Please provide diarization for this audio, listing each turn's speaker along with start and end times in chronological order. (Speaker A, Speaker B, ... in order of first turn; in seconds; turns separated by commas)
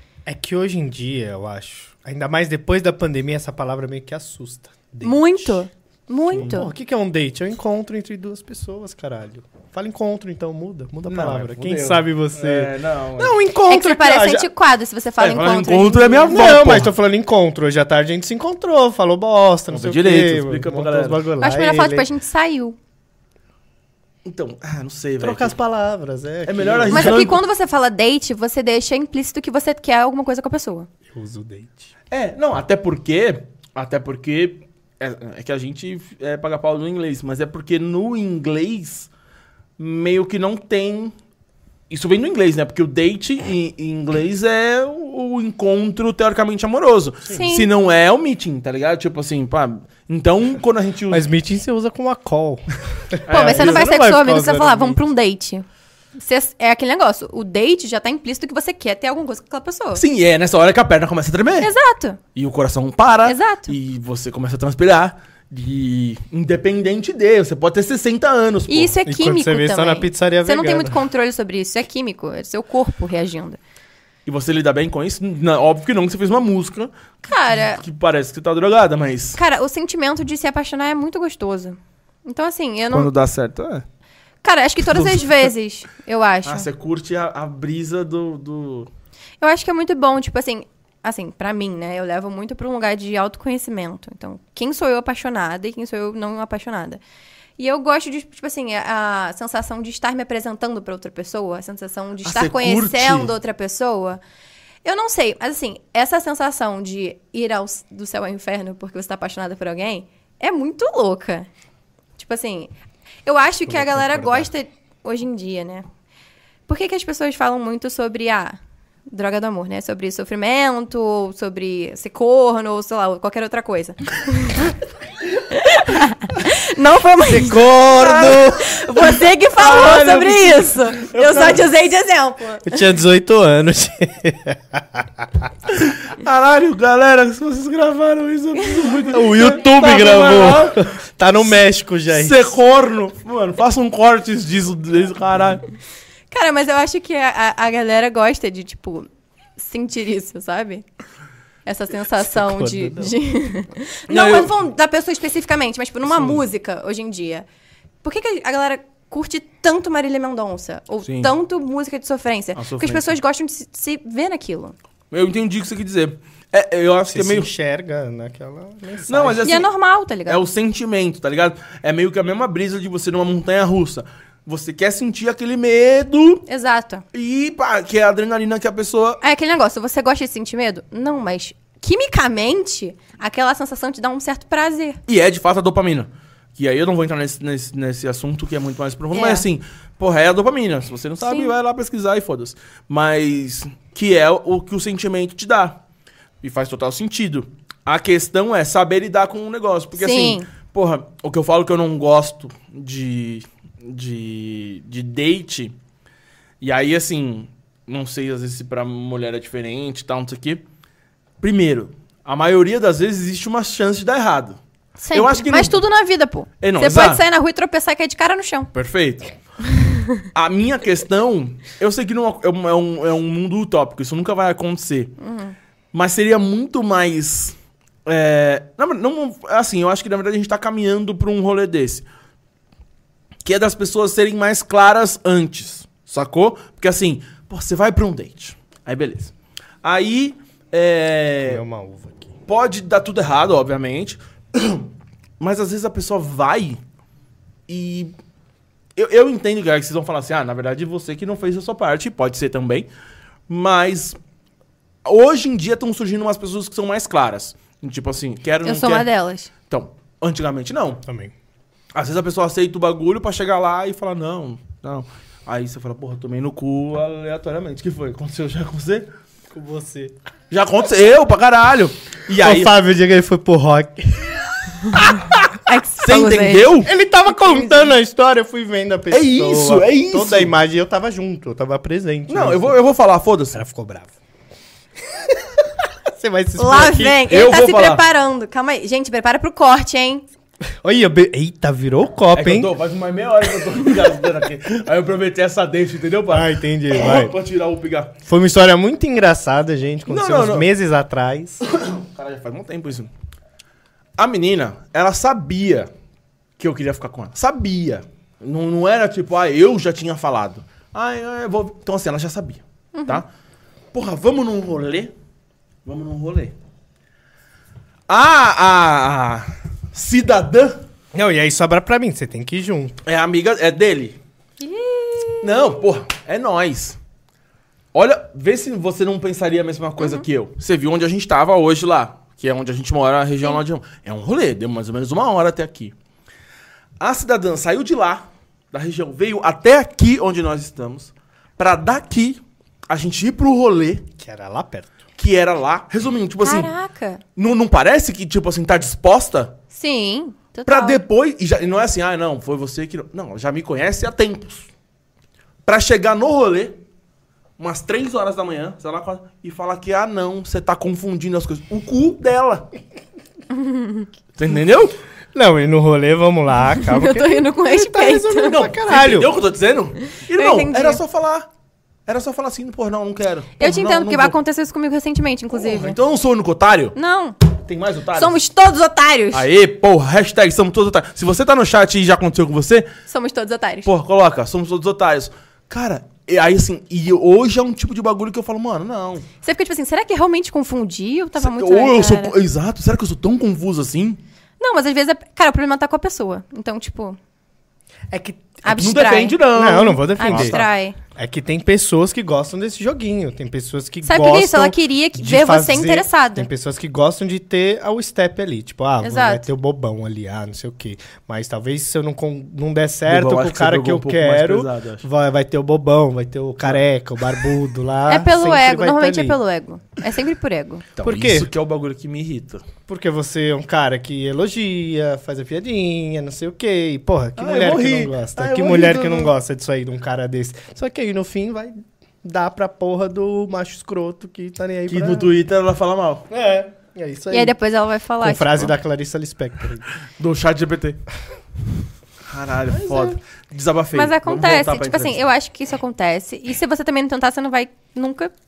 Speaker A: 0.2-5.6, Speaker B: 5.0-6.7, Speaker A: 6.3-14.5, Speaker C: 11.1-13.4, Speaker B: 13.7-16.6, Speaker C: 15.2-16.9, Speaker A: 16.3-22.1, Speaker C: 19.7-21.2, Speaker B: 21.4-22.8, Speaker C: 24.2-25.5, Speaker A: 25.2-27.3, Speaker C: 26.4-27.4, Speaker B: 26.9-30.9, Speaker A: 31.1-31.9, Speaker C: 32.1-39.1, Speaker C: 39.8-41.1, Speaker C: 41.9-51.2, Speaker B: 47.3-47.7, Speaker A: 51.1-55.0, Speaker C: 53.3-54.2, Speaker B: 53.3-60.0, Speaker C: 59.9-61.7, Speaker B: 61.6-62.2, Speaker C: 62.3-68.9, Speaker B: 63.2-63.7, Speaker B: 68.7-73.6, Speaker A: 69.0-71.0, Speaker C: 74.2-76.9, Speaker B: 77.2-77.8, Speaker C: 77.5-79.4, Speaker B: 79.3-83.1, Speaker C: 82.9-83.8, Speaker B: 84.4-86.7, Speaker C: 84.9-85.5, Speaker C: 86.4-88.9, Speaker B: 89.4-97.0, Speaker B: 97.6-104.2, Speaker C: 102.2-103.3, Speaker B: 104.8-111.5, Speaker B: 112.2-112.7, Speaker B: 113.2-115.8, Speaker A: 113.7-114.5, Speaker B: 116.7-124.7, Speaker B: 125.5-127.6, Speaker A: 127.2-128.7, Speaker C: 127.8-131.7, Speaker B: 128.4-132.7, Speaker A: 132.6-135.5, Speaker C: 135.7-140.8, Speaker A: 139.1-142.4, Speaker C: 142.1-145.6, Speaker B: 146.3-150.8, Speaker B: 151.7-157.4, Speaker A: 152.2-153.1, Speaker C: 154.1-154.5, Speaker C: 156.1-156.4, Speaker B: 158.0-164.7, Speaker C: 161.0-161.3, Speaker C: 162.6-163.2, Speaker C: 165.1-167.5, Speaker A: 167.1-169.4, Speaker C: 169.1-169.7, Speaker B: 169.4-170.4, Speaker C: 170.3-176.4, Speaker B: 176.5-177.0, Speaker C: 177.1-179.2, Speaker B: 179.2-185.0, Speaker C: 185.1-195.8, Speaker B: 189.1-189.4, Speaker B: 191.2-191.5, Speaker C: 196.4-205.7, Speaker B: 199.9-200.5, Speaker C: 206.6-210.6, Speaker C: 211.4-214.6, Speaker B: 215.0-218.7, Speaker C: 215.1-215.8, Speaker C: 216.6-217.2, Speaker C: 218.7-219.3, Speaker B: 219.7-220.2, Speaker C: 220.3-225.1, Speaker B: 225.2-225.5, Speaker C: 225.9-227.5, Speaker C: 228.1-232.0, Speaker C: 233.4-241.6, Speaker A: 241.4-242.3, Speaker C: 242.5-246.8, Speaker C: 247.7-248.1, Speaker C: 248.9-252.9, Speaker C: 253.5-254.2, Speaker C: 255.0-259.1, Speaker B: 258.6-259.5, Speaker C: 259.7-261.0, Speaker A: 261.1-261.3, Speaker C: 261.9-269.1, Speaker A: 269.5-270.1, Speaker C: 270.5-272.7, Speaker A: 272.4-275.2, Speaker B: 275.6-276.8, Speaker C: 276.0-276.9, Speaker A: 276.8-282.8, Speaker C: 279.1-280.5, Speaker C: 282.3-283.6, Speaker A: 283.5-284.1, Speaker A: 285.1-287.2, Speaker B: 286.6-290.3, Speaker C: 287.3-288.0, Speaker A: 290.8-292.7, Speaker C: 292.3-298.1, Speaker A: 296.3-297.4, Speaker A: 298.3-301.6, Speaker C: 300.1-300.7, Speaker C: 301.6-303.1, Speaker C: 304.2-305.9, Speaker C: 306.6-313.2, Speaker B: 312.9-313.2, Speaker C: 313.9-315.1, Speaker C: 315.8-316.5, Speaker C: 318.1-320.8, Speaker A: 321.1-323.0, Speaker C: 323.0-324.2, Speaker B: 324.6-325.8, Speaker C: 325.4-327.0, Speaker C: 327.9-335.9, Speaker B: 330.0-330.2, Speaker C: 337.0-344.0, Speaker A: 344.2-345.0, Speaker C: 345.2-346.7, Speaker B: 346.4-347.2, Speaker C: 347.4-349.5, Speaker B: 349.7-351.0, Speaker C: 350.7-354.7, Speaker C: 355.6-356.8, Speaker C: 357.6-362.7, Speaker B: 363.5-364.1, Speaker C: 364.4-364.9, Speaker A: 365.3-369.3, Speaker B: 366.8-368.6, Speaker C: 368.4-371.5, Speaker B: 370.0-371.0, Speaker C: 372.1-374.3, Speaker B: 373.6-375.9, Speaker C: 375.5-376.9, Speaker B: 376.9-377.4, Speaker C: 377.6-378.4, Speaker B: 378.1-379.4, Speaker C: 379.3-382.9, Speaker B: 383.1-383.9, Speaker C: 383.8-389.2, Speaker B: 389.4-392.3, Speaker C: 391.4-394.2, Speaker B: 394.6-397.2, Speaker A: 398.1-398.6, Speaker B: 398.6-399.4, Speaker C: 398.7-400.6, Speaker A: 399.5-419.4, Speaker B: 400.1-401.0, Speaker B: 404.0-406.5, Speaker B: 409.0-409.5, Speaker C: 413.1-415.0, Speaker B: 418.1-420.8, Speaker C: 421.0-422.6, Speaker A: 421.0-421.5, Speaker A: 422.9-435.3, Speaker C: 427.4-429.3, Speaker C: 434.9-436.3, Speaker A: 436.3-437.6, Speaker B: 437.3-438.7, Speaker A: 438.2-439.9, Speaker C: 440.2-441.0, Speaker C: 442.2-445.2, Speaker A: 442.7-443.2, Speaker B: 443.9-448.3